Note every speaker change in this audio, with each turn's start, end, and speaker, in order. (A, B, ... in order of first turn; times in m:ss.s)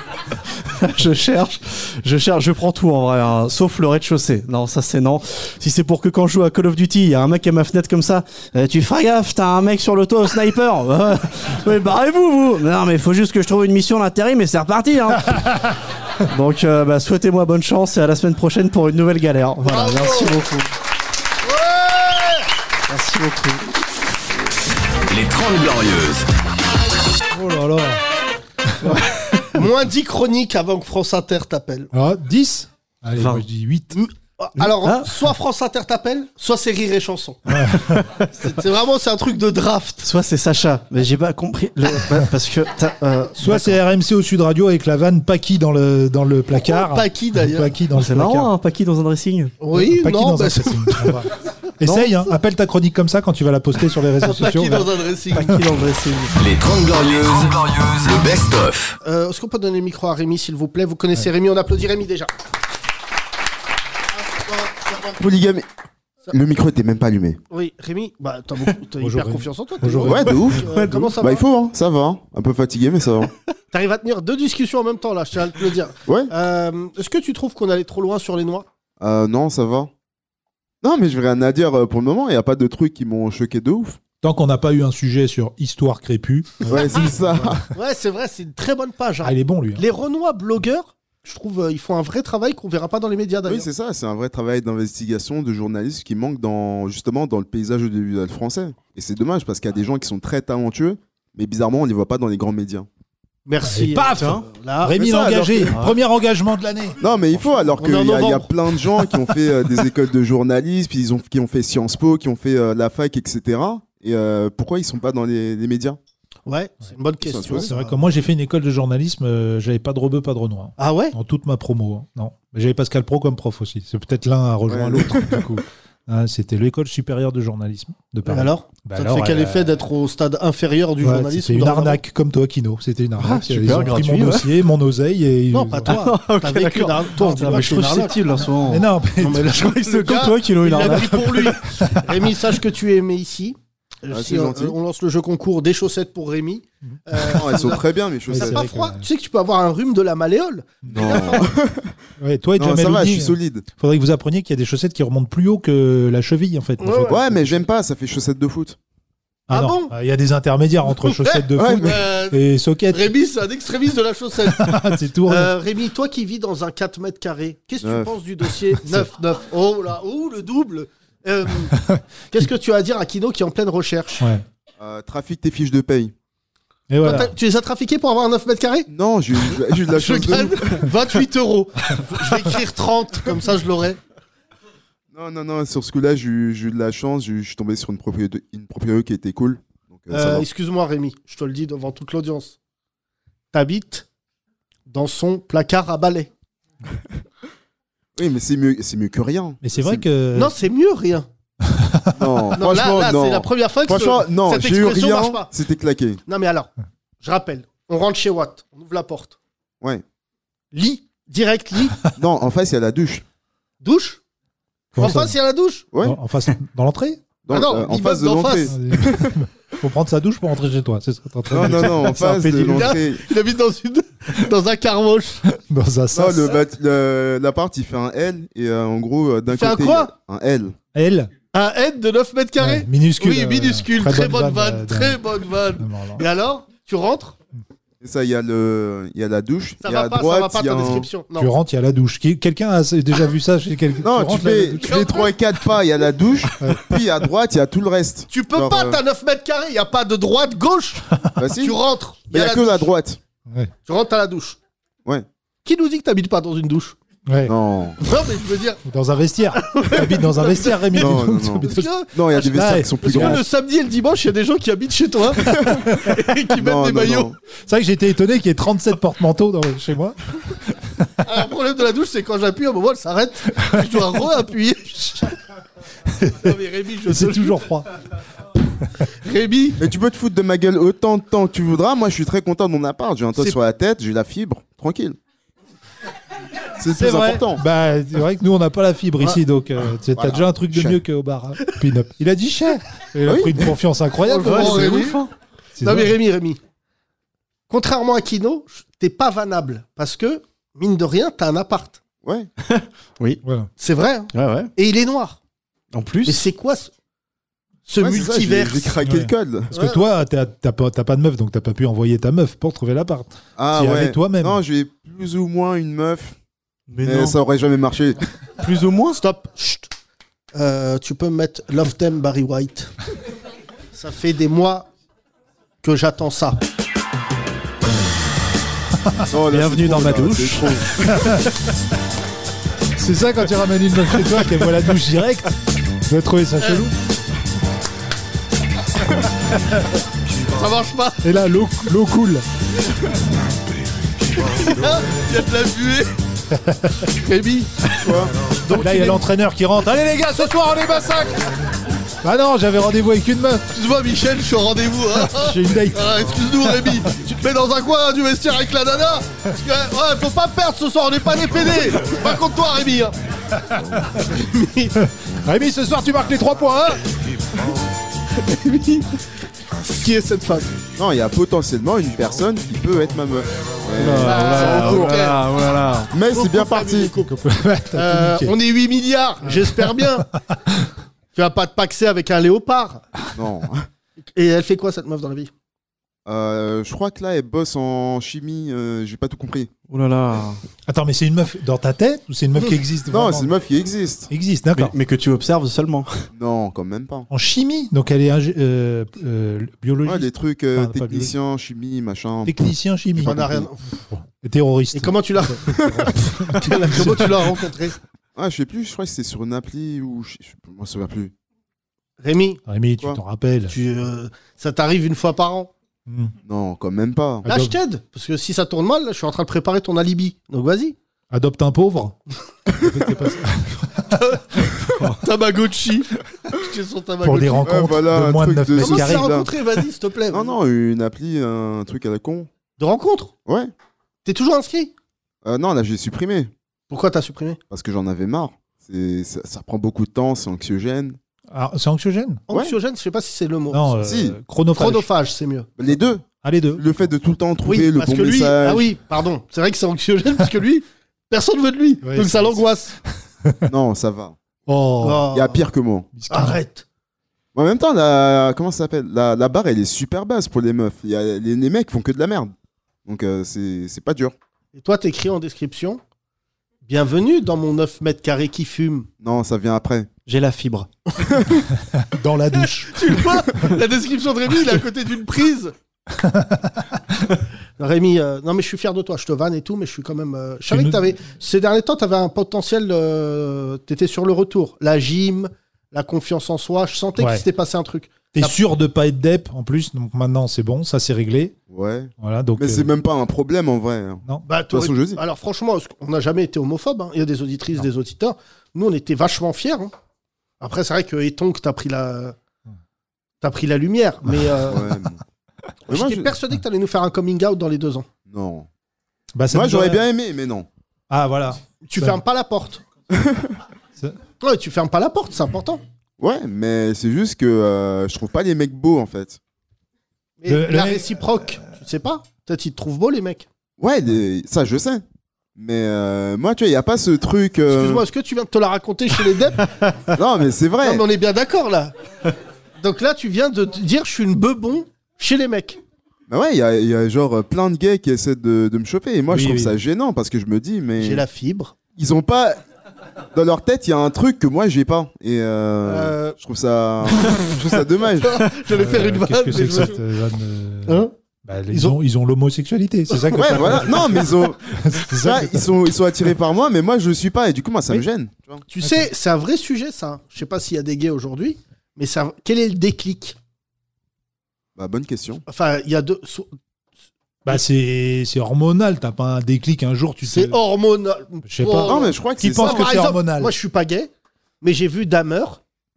0:00.6-0:15.6 A
0:16.2-0:20.7 A
0:19.6-0:20.4 B
0:21.4-0:22.4 B
0:22.9-0:23.7 A
0:25.1-0:26.2 C
0:27.3-0:28.0 D
0:28.7-0:28.9 D
0:28.8-0:29.5 A
0:29.6-0:31.9 B
0:31.9-0:34.0 D
0:33.2-0:33.4 A
0:33.9-0:37.4 B
0:34.8-0:35.1 A
0:37.5-0:38.0 D
0:37.9-0:38.3 A
0:38.4-0:40.1 B
0:40.0-0:43.8 A
0:43.4-0:48.5 D
0:46.7-0:47.7 B
0:47.9-0:49.6 A
0:49.6-0:51.2 B
0:49.7-0:54.9 D
0:51.8-0:52.2 A
0:54.2-0:55.7 B
0:55.4-0:56.3 A
0:56.4-0:58.9 C
0:59.0-1:02.3 B
1:04.2-1:05.2 B
1:05.2-1:05.7 E
1:06.3-1:07.4 E
1:07.5-1:11.4 B
1:09.0-1:10.6 D
1:10.1-1:13.3 E
1:10.7-1:11.1 A
1:13.7-1:18.7 B
1:19.0-1:19.9 E
1:20.8-1:24.0 E
1:24.2-1:27.6 D
1:26.7-1:27.6 E
1:27.7-1:33.7 B
1:29.2-1:29.8 D
1:33.5-1:42.9 E
1:43.4-1:45.9 B
1:43.6-1:47.8 D
1:44.2-1:44.4 A
1:45.1-1:45.6 E
1:47.0-1:56.0 E
1:47.8-1:48.5 B
1:56.4-1:58.0 B
1:57.2-1:57.7 E
1:57.5-2:09.7 D
2:00.8-2:01.1 B
2:04.7-2:05.4 E
2:08.3-2:12.0 B
2:11.0-2:16.1 D
2:13.2-2:14.5 A
2:15.5-2:18.2 B
2:15.9-2:18.9 A
2:18.6-2:22.1 D
2:19.2-2:31.5 B
2:19.6-2:21.5 A
2:24.1-2:24.8 E
2:27.0-2:27.4 D
2:27.4-2:28.6 E
2:28.3-2:29.1 D
2:30.8-2:31.3 D
2:30.9-2:31.9 E
2:32.2-2:37.6 D
2:32.6-2:33.6 E
2:36.8-2:37.6 B
2:37.1-2:38.8 E
2:39.5-2:43.1 D
2:39.5-2:39.9 B
2:41.0-2:51.8 B
2:41.6-2:42.0 E
2:44.5-2:45.5 D
2:47.8-2:48.2 E
2:51.7-2:52.5 D
2:52.3-2:54.3 B
2:54.8-2:56.1 E
2:56.9-2:57.3 D
2:57.0-2:58.9 B
2:58.9-3:00.9 E
2:59.9-3:04.0 B
3:05.1-3:10.4 E
3:10.1-3:12.6 B
3:13.5-3:14.1 B
3:14.9-3:16.3 B
3:18.2-3:20.0 E
3:19.6-3:20.6 D
3:20.3-3:21.3 B
3:21.7-3:22.1 D
3:22.2-3:26.2 E
3:22.6-3:25.5 B
3:26.3-3:26.7 B
3:27.2-3:29.4 B
3:30.7-3:32.0 B
3:32.2-3:33.2 E
3:33.8-3:34.2 B
3:35.0-3:35.4 D
3:35.0-3:35.9 B
3:36.0-3:37.2 D
3:37.4-3:39.3 E
3:37.5-3:38.7 B
3:38.7-3:42.2 D
3:41.5-3:43.2 E
3:42.0-3:42.8 A
3:42.3-3:45.4 B
3:45.6-3:46.6 D
3:46.1-3:50.8 E
3:49.5-3:50.1 B
3:51.0-3:51.3 D
3:51.5-3:57.4 B
3:52.6-3:55.2 D
3:55.8-3:56.2 D
3:58.0-4:01.1 E
3:59.8-4:01.5 B
4:01.4-4:05.1 D
4:04.0-4:09.0 E
4:04.8-4:05.4 B
4:08.3-4:11.0 B
4:11.4-4:13.2 E
4:11.6-4:12.9 B
4:13.9-4:14.6 B
4:15.6-4:17.0 B
4:17.3-4:17.5 D
4:17.5-4:18.0 E
4:18.0-4:18.8 B
4:18.8-4:23.4 D
4:19.6-4:27.3 B
4:21.0-4:23.4 E
4:26.6-4:27.4 E
4:27.6-4:30.2 D
4:31.2-4:35.3 B
4:36.2-4:36.5 D
4:36.3-4:37.7 B
4:37.1-4:37.9 D
4:39.2-4:39.8 B
4:39.8-4:45.2 E
4:46.8-4:47.6 E
4:47.0-4:55.2 D
4:50.1-4:51.0 E
4:53.3-4:53.7 E
4:54.2-4:55.3 B
4:54.4-4:55.2 A
4:55.8-4:56.2 D
4:55.8-4:56.6 B
4:57.7-5:02.0 B
5:02.2-5:02.5 E
5:02.7-5:03.4 A
5:03.4-5:03.7 D
5:03.8-5:05.4 B
5:04.3-5:04.7 A
5:05.9-5:06.4 A
5:06.3-5:06.9 B
5:07.9-5:09.0 B
5:08.0-5:09.7 E
5:09.0-5:14.6 D
5:09.7-5:10.0 B
5:13.6-5:16.4 E
5:16.9-5:17.4 A
5:17.0-5:18.2 E
5:18.6-5:19.2 A
5:19.2-5:19.9 B
5:20.5-5:22.9 B
5:23.9-5:24.9 B
5:25.8-5:26.6 B
5:29.3-5:31.1 E
5:29.5-5:30.9 A
5:31.0-5:31.4 D
5:33.0-5:36.9 D
5:40.5-5:41.2 B
5:41.2-5:42.4 D
5:44.4-5:46.1 B
5:46.5-5:47.1 D
5:47.2-5:49.2 B
5:48.0-5:48.3 E
5:48.7-5:51.5 D
5:52.2-5:53.7 D
5:53.7-6:03.1 B
5:55.2-5:56.1 D
6:03.6-6:04.0 D
6:04.2-6:05.0 B
6:05.0-6:07.0 D
6:08.5-6:09.1 B
6:09.8-6:10.7 B
6:11.0-6:15.3 E
6:14.0-6:16.1 A
6:14.2-6:15.4 B
6:16.1-6:17.1 E
6:16.3-6:17.4 B
6:17.2-6:18.6 D
6:17.9-6:20.3 B
6:19.4-6:20.8 D
6:21.3-6:23.0 B
6:23.4-6:23.9 E
6:24.4-6:25.5 B
6:26.3-6:29.7 E
6:29.9-6:30.6 A
6:30.9-6:33.6 D
6:33.1-6:34.3 E
6:34.3-6:35.0 D
6:34.7-6:36.1 A
6:36.3-6:37.3 E
6:37.3-6:41.3 D
6:40.0-6:43.7 E
6:42.4-6:47.5 D
6:43.2-6:43.8 B
6:44.9-6:48.0 B
6:45.7-6:46.1 E
6:48.4-6:51.3 E
6:52.2-6:52.6 B
6:52.7-6:53.8 D
6:53.7-6:55.7 B
6:56.1-6:56.3 D
6:56.4-6:57.4 E
6:57.4-6:57.8 D
6:57.4-7:01.0 B
7:01.3-7:04.2 D
7:04.1-7:07.9 B
7:07.2-7:09.4 D
7:07.7-7:09.5 E
7:08.8-7:10.6 B
7:10.3-7:12.5 E
7:12.8-7:13.3 B
7:13.4-7:13.7 E
7:14.2-7:14.9 B
7:15.4-7:16.5 E
7:16.9-7:17.6 B
7:17.7-7:21.2 E
7:21.5-7:22.4 D
7:22.5-7:24.0 B
7:23.7-7:25.1 D
7:24.0-7:24.4 E
7:24.8-7:25.7 B
7:25.8-7:28.9 E
7:25.9-7:27.1 D
7:27.7-7:32.9 B
7:32.0-7:32.6 D
7:33.4-7:33.7 D
7:33.7-7:34.4 E
7:34.7-7:35.3 D
7:35.0-7:35.6 B
7:35.3-7:36.1 E
7:36.1-7:36.6 D
7:36.3-7:36.8 B
7:37.6-7:42.5 E
7:43.1-7:44.4 E
7:44.7-7:46.0 B
7:46.8-7:49.1 B
7:49.2-7:50.1 E
7:50.3-7:50.9 A
7:51.9-7:53.1 D
7:52.8-7:55.7 B
7:56.1-7:57.0 D
7:57.8-8:08.6 B
8:00.7-8:01.1 D
8:07.2-8:07.4 D
8:08.3-8:11.6 D
8:11.7-8:15.2 E
8:12.2-8:12.9 D
8:14.4-8:19.9 B
8:20.6-8:22.4 B
8:23.4-8:24.8 B
8:24.7-8:25.2 E
8:25.9-8:28.1 B
8:25.9-8:26.3 E
8:28.3-8:28.7 E
8:29.4-8:30.1 D
8:29.5-8:30.7 E
8:31.1-8:32.2 D
8:31.8-8:32.8 B
8:33.1-8:33.5 E
8:34.4-8:35.8 B
8:36.2-8:39.4 E
8:40.4-8:43.4 B
8:40.5-8:41.2 D
8:43.8-8:45.0 E
8:45.6-8:48.0 E
8:47.7-8:49.7 B
8:50.1-8:51.0 E
8:50.8-8:51.9 B
8:52.8-8:55.8 B
8:56.3-9:01.2 E
8:59.3-8:59.8 D
9:01.0-9:01.8 B
9:02.0-9:02.6 E
9:03.3-9:08.4 E
9:05.8-9:06.4 B
9:08.2-9:10.0 B
9:08.7-9:15.7 D
9:10.9-9:11.1 B
9:11.7-9:12.0 B
9:13.2-9:14.2 B
9:13.4-9:14.6 E
9:15.2-9:18.6 E
9:18.7-9:23.4 B
9:18.8-9:19.1 D
9:24.8-9:25.4 E
9:25.5-9:26.5 B
9:27.4-9:30.6 D
9:30.2-9:34.1 B
9:31.5-9:33.6 D
9:31.8-9:33.0 E
9:34.6-9:35.6 B